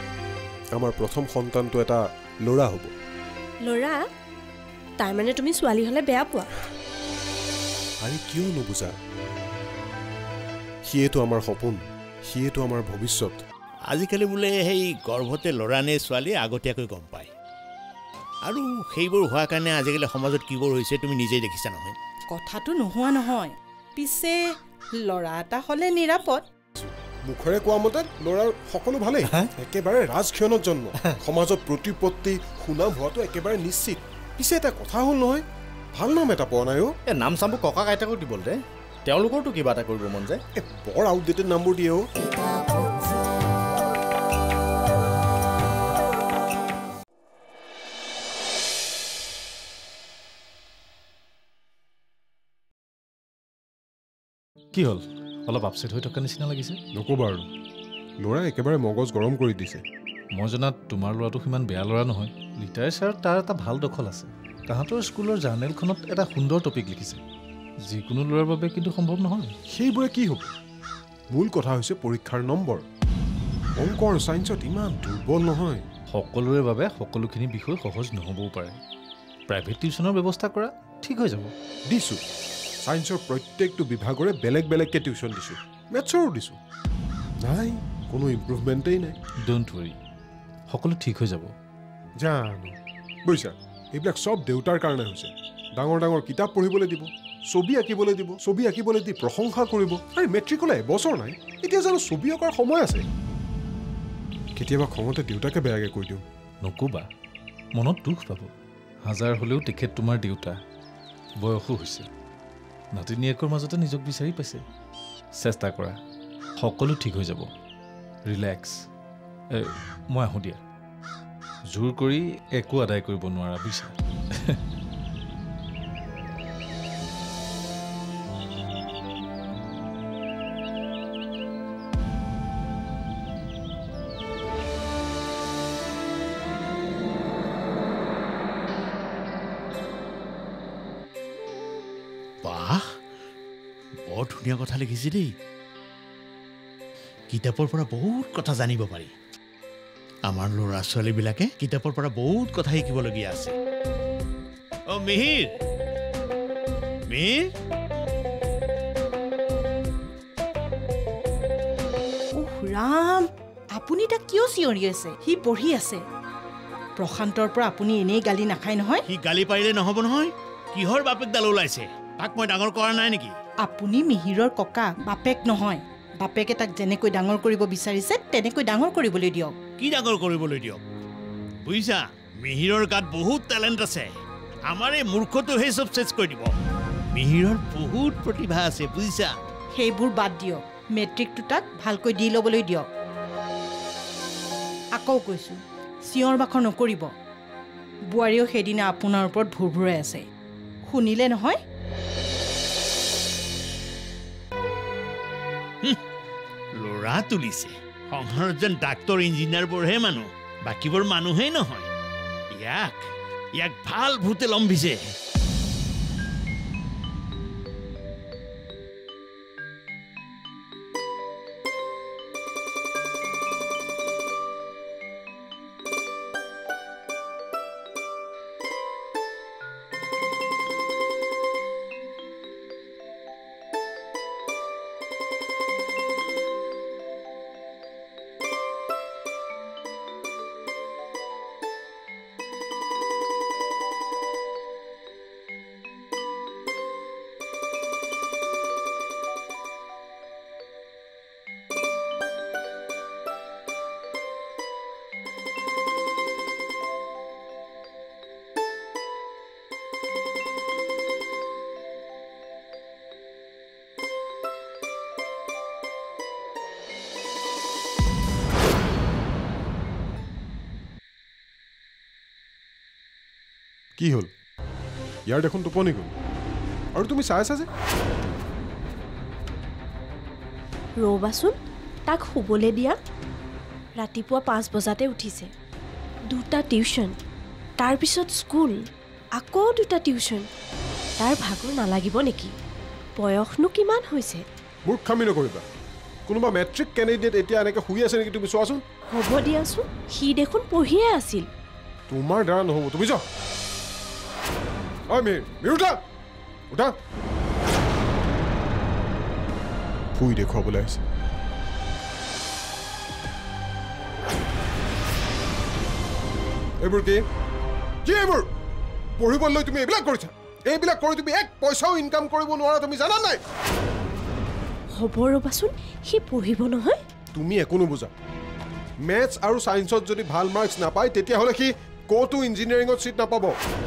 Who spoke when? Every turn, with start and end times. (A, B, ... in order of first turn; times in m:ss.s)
0:00.7-0:02.9 A
0:03.6-0:04.0 B
0:05.0-0:06.5 B
0:08.0-0:09.0 A
0:10.9-0:13.4 A
0:13.9-0:17.3 C
0:18.4-0:22.0 C
0:22.3-0:24.4 D
0:25.0-0:26.4 D
0:26.8-0:35.4 A
0:36.0-0:36.9 A
0:37.1-0:40.4 E
0:40.6-0:42.1 A
0:54.8-0:56.8 F
0:57.0-0:57.5 A
0:58.2-0:59.8 A
1:00.3-1:07.2 F
1:07.8-1:09.5 F
1:09.7-1:10.5 A
1:11.3-1:12.8 A
1:13.8-1:15.9 A
1:16.1-1:18.8 F
1:19.5-1:21.5 F
1:21.9-1:22.2 A
1:22.8-1:26.6 A
1:27.4-1:29.2 A
1:29.4-1:30.0 F
1:30.7-1:31.5 F
1:32.2-1:32.8 A
1:33.3-1:43.0 A
1:44.6-1:46.2 A
1:46.6-1:47.1 F
1:47.8-1:48.5 F
1:49.0-1:50.6 F
1:51.4-1:52.1 F
1:53.0-1:54.6 F
1:55.4-1:56.0 F
1:56.6-1:57.5 F
1:58.3-1:58.8 F
1:59.5-2:00.6 F
2:01.7-2:04.6 F
2:22.4-2:22.9 C
2:24.1-2:25.3 C
2:27.3-2:29.1 C
2:30.3-2:33.5 C
2:34.9-2:35.5 C
2:37.1-2:37.4 C
2:42.4-2:46.0 D
2:47.0-2:49.0 D
2:49.1-2:53.3 C
2:53.6-2:59.6 D
2:59.8-3:00.8 C
3:01.6-3:04.1 C
3:04.7-3:06.5 C
3:07.1-3:09.4 C
3:09.8-3:12.9 D
3:15.0-3:17.1 D
3:18.1-3:20.2 D
3:20.8-3:21.6 D
3:26.8-3:31.9 C
3:32.5-3:35.0 C
4:34.0-4:34.3 A
4:35.3-4:36.1 A
4:37.0-4:37.7 A
4:41.0-4:41.6 B
4:42.1-4:43.0 B
4:44.0-4:45.5 B
4:46.3-4:47.1 B
4:47.8-4:48.8 B
4:49.4-4:50.4 B
4:51.2-4:52.5 B
4:53.2-4:54.4 B
4:54.9-4:55.6 A
4:56.3-4:58.8 A
4:59.1-5:01.5 B
5:02.1-5:03.2 A
5:05.1-5:06.0 A
5:06.7-5:07.0 A
5:10.2-5:11.0 A
5:16.8-5:17.2 A
5:18.0-5:18.5 A
5:19.2-5:23.4 A
5:24.9-5:27.0 B
5:27.3-5:28.1 A
5:29.0-5:33.6 A